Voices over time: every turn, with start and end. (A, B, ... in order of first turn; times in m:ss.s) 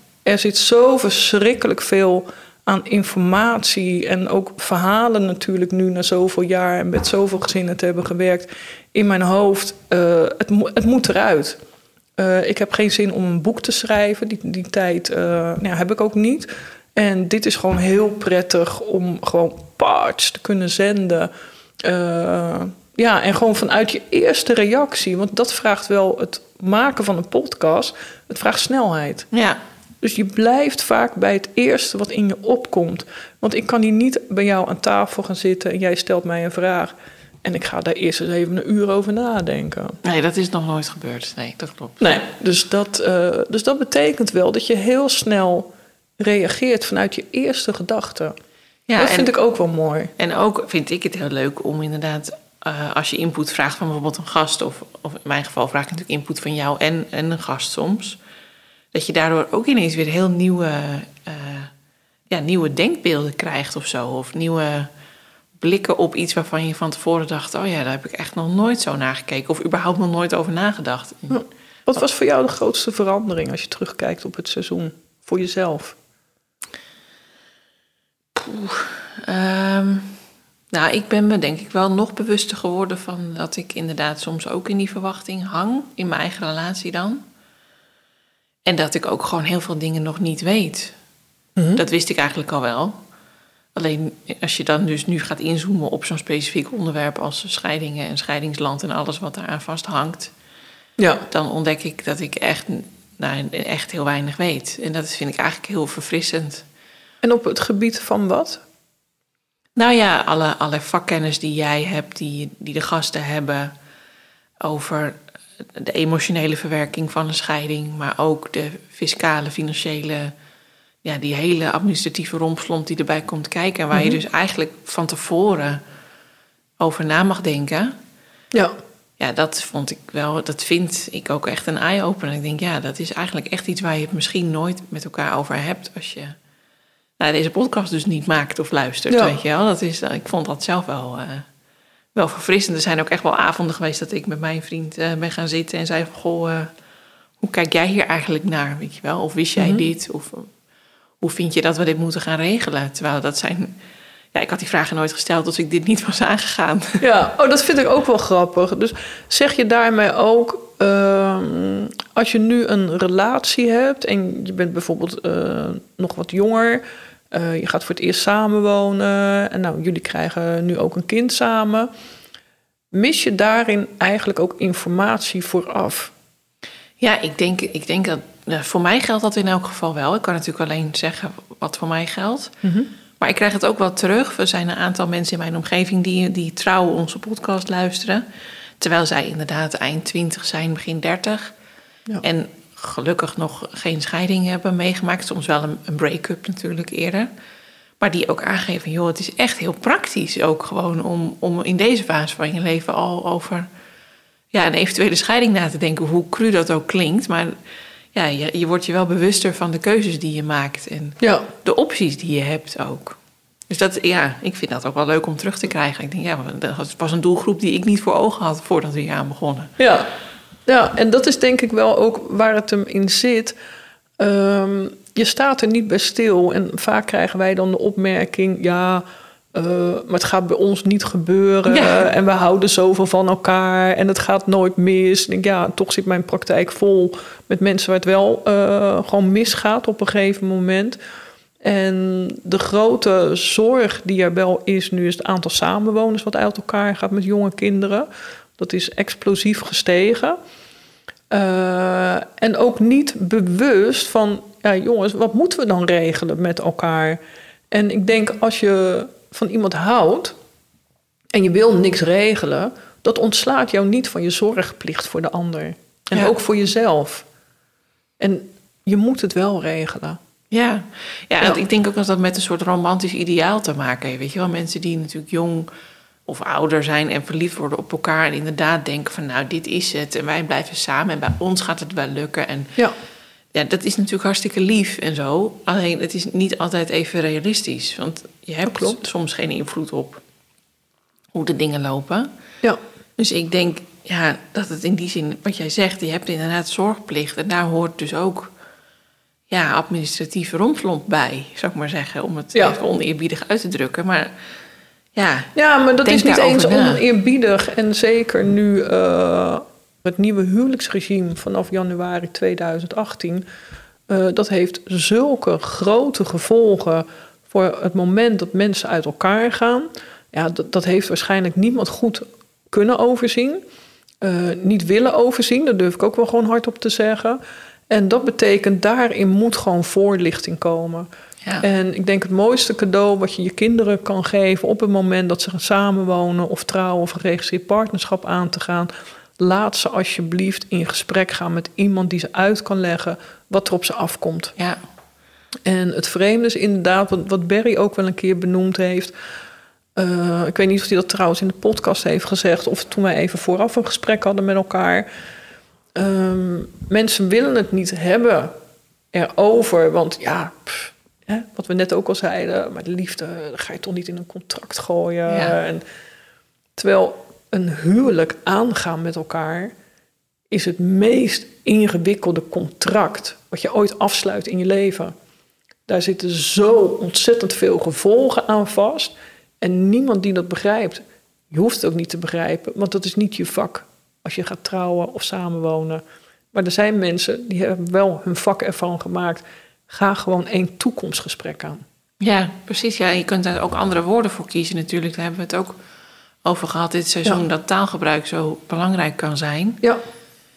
0:00.2-0:11.6 A
0:12.2-0:21.3 A
0:21.8-0:29.3 A
0:29.3-0:29.6 B
0:30.0-0:36.9 A
0:37.4-0:40.0 A
0:40.0-0:42.0 B
0:42.0-0:48.3 A
0:48.9-0:49.3 B
0:49.0-0:50.1 A
0:50.2-0:58.2 B
0:58.9-1:01.7 B
1:02.3-1:04.9 B
1:05.6-1:11.4 B
1:11.3-1:16.0 A
1:18.3-1:20.2 B
1:20.7-1:27.2 B
1:28.6-1:30.9 B
1:31.8-1:33.0 B
1:33.8-1:40.3 B
1:41.0-1:41.2 A
1:41.3-1:46.6 B
1:47.2-1:48.6 A
1:49.8-1:53.7 B
1:54.6-1:55.2 B
1:55.7-2:00.3 B
2:01.0-2:05.8 B
2:06.8-2:08.0 B
2:09.2-2:16.4 B
2:17.2-2:21.5 B
2:19.1-2:19.4 A
2:22.1-2:26.7 B
2:27.4-2:30.5 B
2:29.6-2:29.8 A
2:31.2-2:33.7 B
2:34.3-2:37.0 B
2:37.0-2:51.9 A
2:52.9-2:56.1 A
2:57.0-3:02.5 B
3:02.6-3:02.9 A
3:03.2-3:08.2 B
3:08.8-3:11.5 B
3:12.2-3:17.3 B
3:18.0-3:23.7 B
3:24.5-3:27.6 B
3:28.1-3:33.2 B
3:31.2-3:31.5 A
3:33.7-3:39.7 B
3:39.8-3:40.1 A
3:40.6-3:43.6 A
3:44.2-4:01.0 A
3:51.7-3:52.0 B
4:01.6-4:10.4 A
4:11.3-4:17.2 A
4:17.7-4:20.4 A
4:21.3-4:27.2 A
4:28.2-4:30.2 A
4:30.5-4:35.7 B
4:36.3-4:42.8 B
4:43.5-4:50.2 B
4:48.7-4:49.0 A
4:51.3-4:52.3 B
4:53.2-4:58.5 B
4:59.5-5:04.3 B
5:05.1-5:07.0 B
5:05.5-5:13.4 A
5:14.1-5:23.6 A
5:24.2-5:31.1 A
5:31.6-5:44.5 A
5:45.6-5:49.1 A
5:50.0-5:55.1 A
5:55.9-5:58.6 A
5:59.1-6:05.8 A
6:05.3-6:05.6 B
6:06.8-6:09.7 A
6:10.5-6:15.1 A
6:15.9-6:31.8 A
6:32.2-6:35.8 B
6:36.4-6:39.8 B